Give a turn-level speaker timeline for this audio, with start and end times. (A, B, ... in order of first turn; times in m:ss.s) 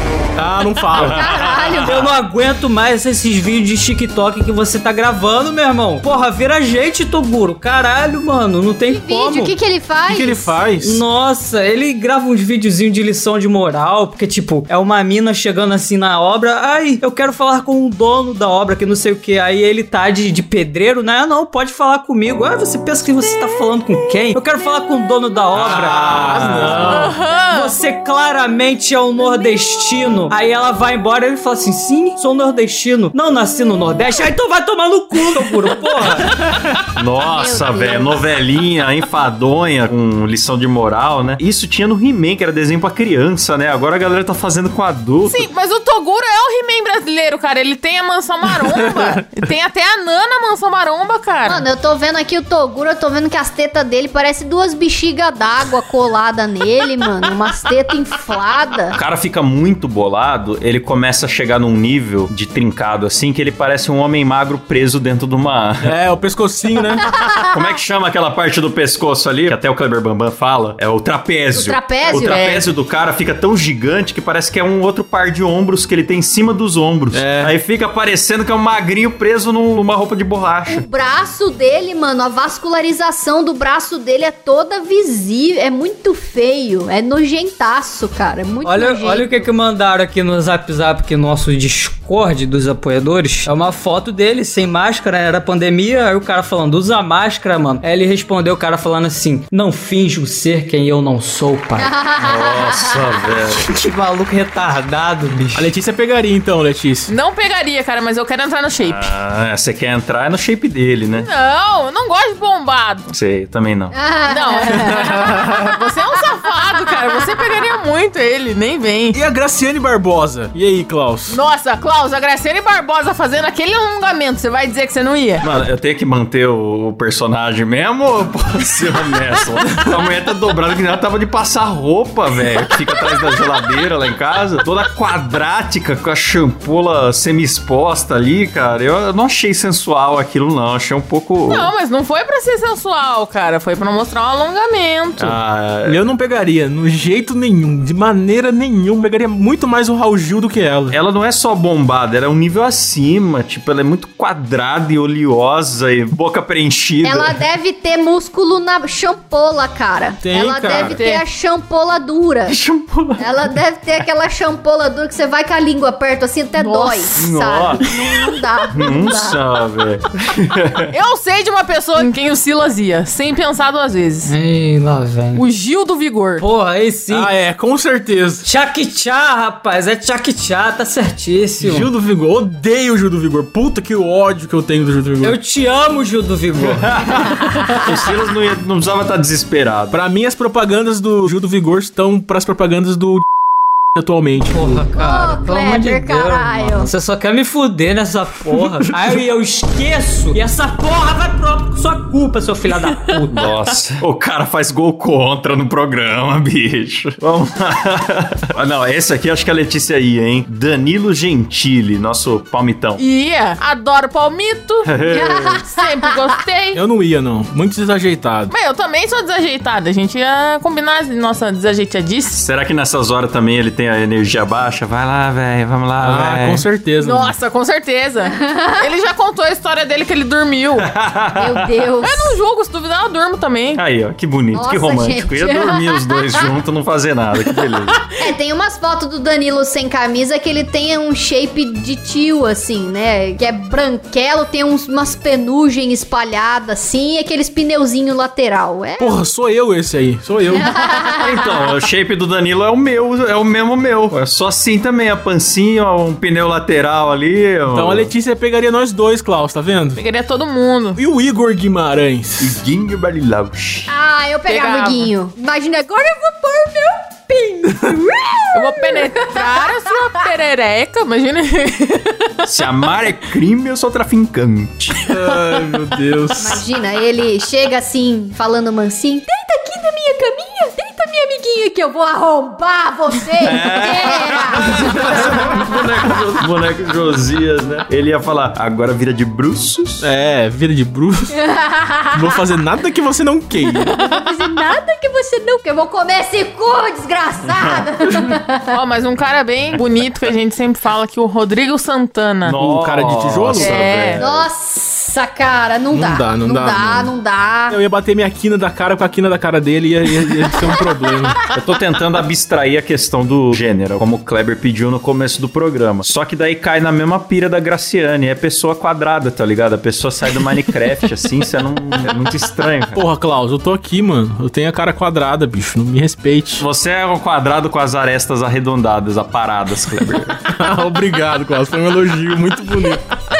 0:00.4-0:01.2 A
0:00.9-0:02.1 B
0:01.0-0:02.0 C
0:01.8-0:09.5 D
0:08.9-0:10.6 C
0:10.1-0:11.0 A
0:10.8-0:26.9 D
0:25.5-0:27.1 B
0:25.6-0:27.2 A
0:26.9-0:27.8 E
0:27.5-0:36.3 D
0:37.0-0:45.5 B
0:37.3-0:38.2 C
0:45.3-0:51.7 E
0:48.6-0:49.2 A
0:51.5-0:59.0 C
0:58.9-1:05.9 B
1:05.8-1:07.1 A
1:07.1-1:07.6 C
1:07.4-1:20.8 B
1:11.5-1:12.4 C
1:12.1-1:12.7 E
1:17.1-1:17.5 A
1:20.7-1:29.5 C
1:28.6-1:41.9 D
1:41.8-1:43.2 C
1:42.2-1:43.6 B
1:43.6-1:45.7 D
1:45.5-1:47.1 A
1:47.1-1:49.1 E
1:48.8-1:51.3 B
1:51.2-1:53.1 E
1:53.1-1:54.0 B
1:53.9-1:55.4 C
1:54.3-1:59.2 E
1:54.9-1:55.6 A
1:59.1-2:01.4 A
2:01.3-2:05.5 E
2:05.4-2:21.7 B
2:21.5-2:25.4 E
2:25.2-2:26.0 B
2:25.8-2:31.0 A
2:30.9-2:37.4 B
2:37.0-2:42.6 C
2:40.2-2:41.0 A
2:40.6-2:41.2 E
2:42.5-2:43.2 B
2:43.2-2:49.4 C
2:46.6-2:47.2 E
2:47.2-2:47.9 B
2:48.8-2:50.9 B
2:50.9-2:54.3 E
2:54.3-2:55.4 D
2:55.4-2:56.4 E
2:56.4-2:57.3 D
2:57.1-2:58.5 A
2:58.4-3:01.9 D
3:01.6-3:05.4 A
3:05.2-3:07.9 D
3:06.6-3:10.0 B
3:09.9-3:13.2 A
3:14.0-3:14.9 A
3:14.5-3:23.5 D
3:15.0-3:16.9 C
3:23.3-3:33.0 B
3:33.0-3:34.9 E
3:34.8-3:35.6 B
3:35.1-3:35.9 C
3:35.7-3:36.8 E
3:36.7-3:38.5 A
3:38.5-3:42.4 E
3:42.3-3:46.6 B
3:46.0-3:47.4 A
3:47.0-3:50.9 E
3:48.3-3:48.9 C
3:50.8-3:51.7 B
3:51.4-3:52.4 C
3:52.0-3:53.8 E
3:53.8-3:58.0 B
3:54.5-3:56.5 C
3:58.2-4:09.1 C
4:09.0-4:10.7 A
4:10.5-4:11.4 C
4:10.8-4:18.1 B
4:17.7-4:20.0 A
4:20.0-4:21.0 E
4:21.0-4:22.6 A
4:22.4-4:23.9 B
4:23.9-4:29.7 C
4:24.5-4:25.1 E
4:28.5-4:32.4 E
4:32.4-4:35.1 B
4:35.1-4:36.6 A
4:36.4-4:45.4 C
4:43.4-4:50.1 B
4:44.8-4:45.6 A
4:50.0-4:51.4 A
4:51.4-4:52.3 C
4:52.1-4:54.0 A
4:53.9-4:58.7 C
4:57.5-4:57.9 B
4:58.7-5:02.6 E
5:02.4-5:04.5 B
5:02.6-5:03.8 A
5:03.6-5:04.2 E
5:04.2-5:07.8 C
5:05.9-5:07.1 A
5:07.7-5:11.4 A
5:11.5-5:23.0 B
5:23.0-5:26.7 A
5:26.6-5:30.4 B
5:30.5-5:33.0 A